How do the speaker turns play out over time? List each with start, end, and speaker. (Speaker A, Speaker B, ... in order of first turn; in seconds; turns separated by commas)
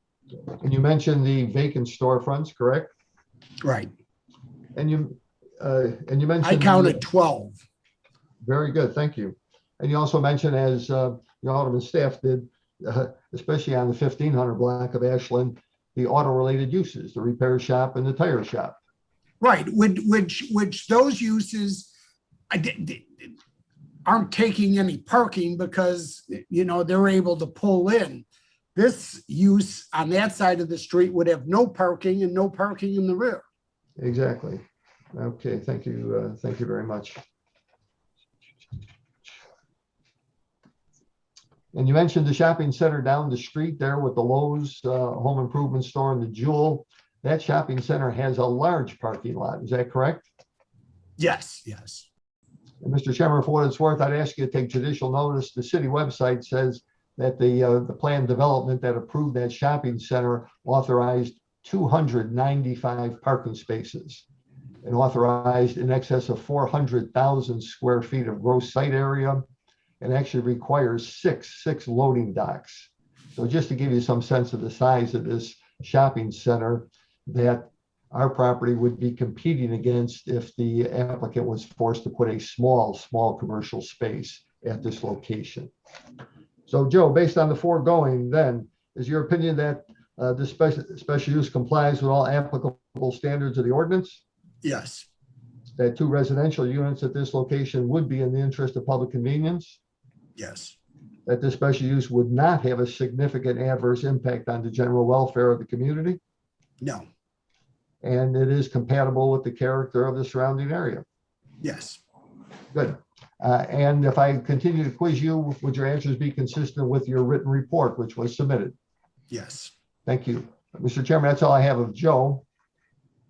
Speaker A: 0.5-2.9, Speaker B: 3.6-3.9, Speaker A: 4.8-7.0, Speaker B: 6.4-7.6, Speaker A: 8.4-18.8, Speaker B: 19.4-21.9, Speaker B: 22.5-23.3, Speaker B: 24.0-33.4, Speaker A: 34.0-34.6, Speaker A: 35.1-37.2, Speaker A: 41.7-50.3, Speaker B: 51.2-52.1, Speaker A: 52.8-64.2, Speaker A: 64.8-69.5, Speaker A: 70.0-85.7, Speaker A: 86.7-94.2, Speaker B: 94.6-95.1, Speaker A: 95.8-99.8, Speaker B: 100.4-100.8, Speaker A: 101.2-106.2, Speaker B: 106.8-107.0, Speaker A: 108.0-111.0, Speaker B: 111.6-112.0, Speaker A: 112.7-118.8, Speaker B: 119.3-119.7, Speaker A: 120.0-122.4